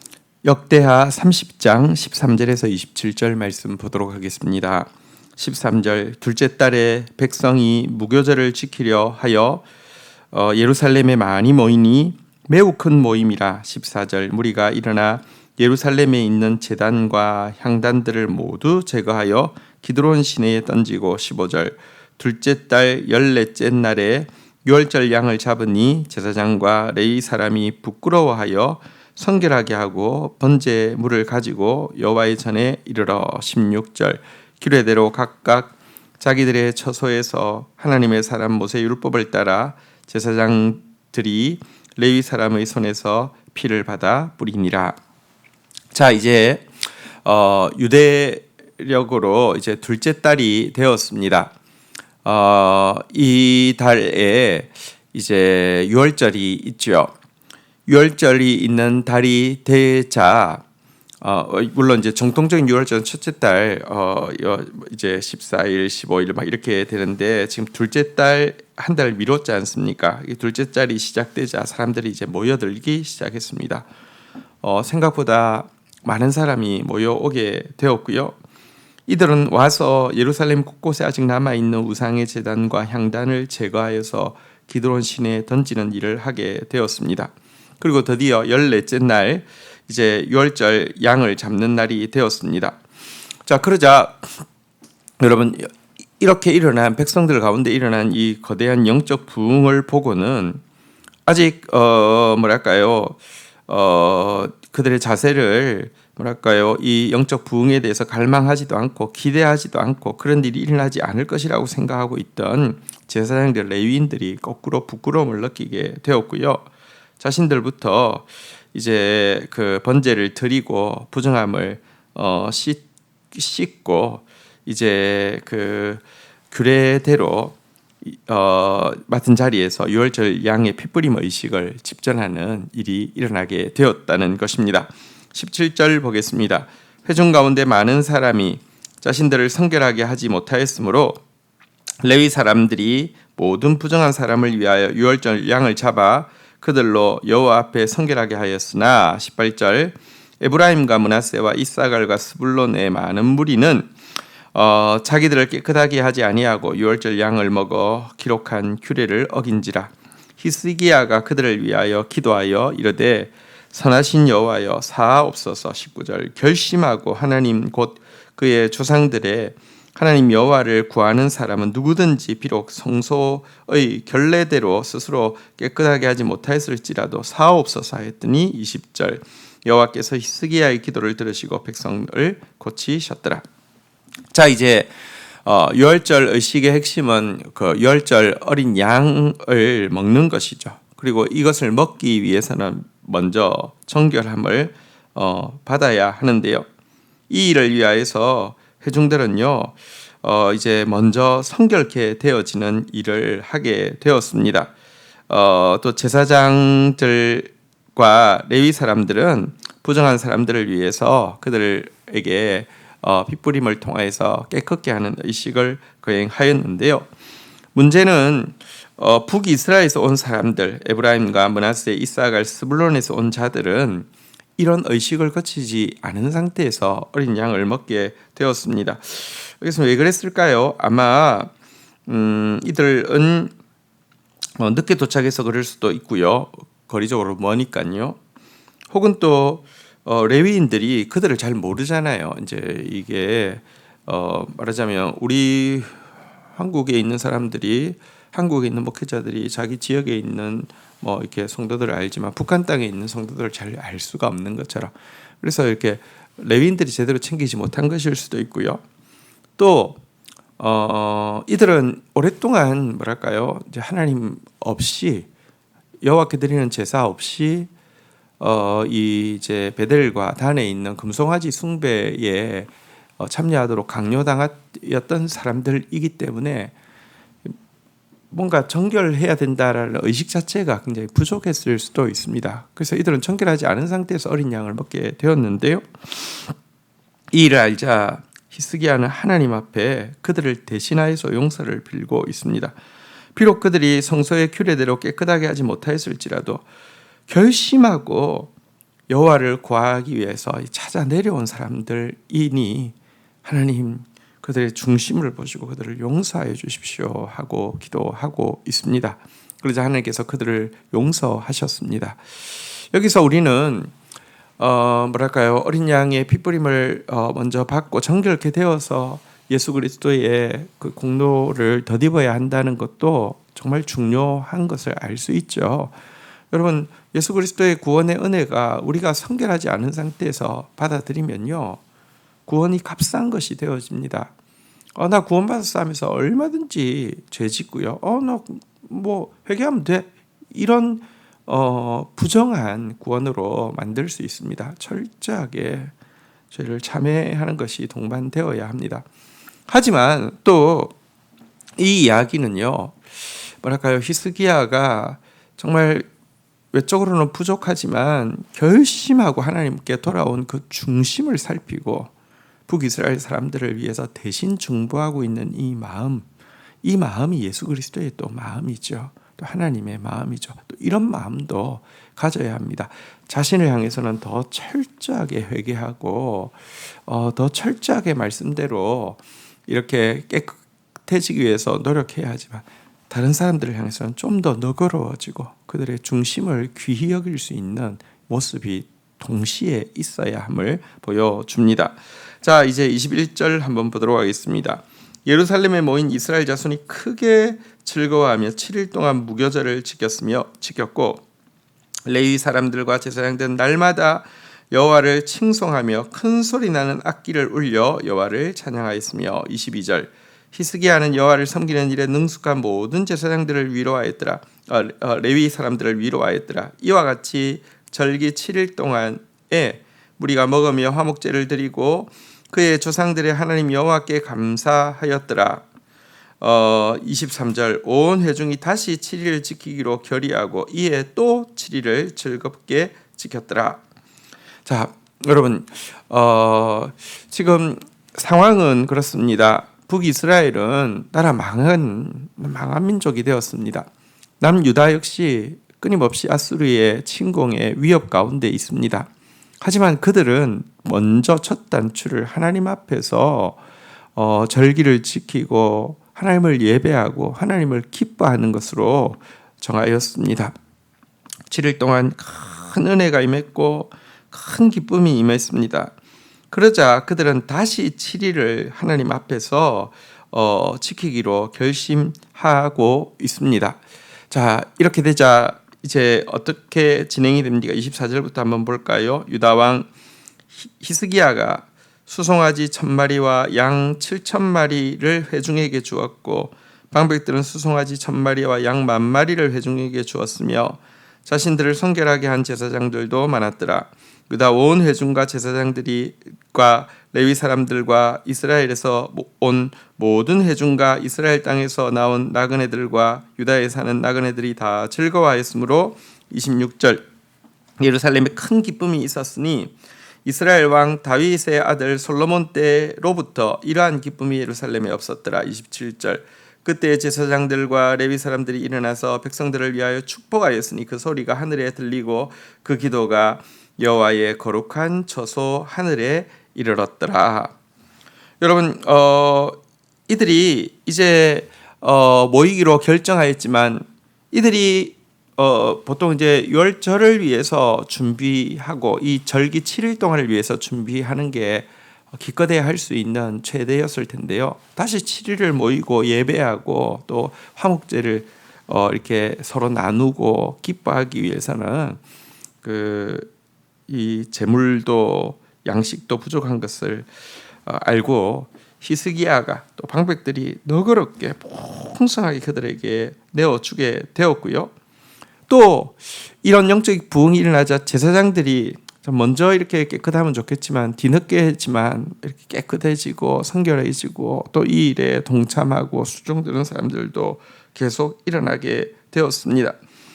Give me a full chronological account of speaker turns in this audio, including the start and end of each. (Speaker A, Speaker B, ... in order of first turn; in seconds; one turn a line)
Speaker A: 0.4-9.6
Speaker A: 10.3-45.0
Speaker A: 45.9-46.7
Speaker A: 47.2-51.5
Speaker A: 52.2-57.1
Speaker A: 57.9-60.6
Speaker A: 61.2-73.9
Speaker A: 74.6-78.3
Speaker A: 79.1-92.8
Speaker A: 93.5-94.3
Speaker A: 95.2-100.6
Speaker A: 101.3-116.7
Speaker A: 117.2-141.2
Speaker A: 142.0-153.9
Speaker A: 154.5-183.4
Speaker A: 184.3-184.9
Speaker A: 185.4-196.7
Speaker A: 197.3-204.7
Speaker A: 205.3-217.1
Speaker A: 217.8-224.1
Speaker A: 224.6-231.5
Speaker A: 232.1-233.5
Speaker A: 234.6-238.2
Speaker A: 238.9-246.0
Speaker A: 246.6-258.8
Speaker A: 259.6-260.0
Speaker A: 260.6-265.3
Speaker A: 266.0-267.7
Speaker A: 268.4-276.7
Speaker A: 278.3-286.5
Speaker A: 287.3-292.8
Speaker A: 293.4-296.6
Speaker A: 297.3-298.5
Speaker A: 299.1-313.9
Speaker A: 314.6-325.9
Speaker A: 326.5-331.8
Speaker A: 332.5-334.3
Speaker A: 335.0-345.9
Speaker A: 346.5-349.1
Speaker A: 349.7-350.9
Speaker A: 351.8-356.1
Speaker A: 356.7-362.1
Speaker A: 362.7-366.3
Speaker A: 366.8-401.2
Speaker A: 402.1-425.6
Speaker A: 426.4-433.8
Speaker A: 434.6-443.9
Speaker A: 444.4-449.1
Speaker A: 449.6-453.6
Speaker A: 454.2-460.6
Speaker A: 461.5-465.9
Speaker A: 466.5-473.8
Speaker A: 474.3-479.9
Speaker A: 480.6-507.1
Speaker A: 507.8-509.7
Speaker A: 510.2-527.5
Speaker A: 528.4-529.6
Speaker A: 530.1-552.0
Speaker A: 552.6-553.3
Speaker A: 553.9-557.1
Speaker A: 557.6-564.7
Speaker A: 565.5-579.8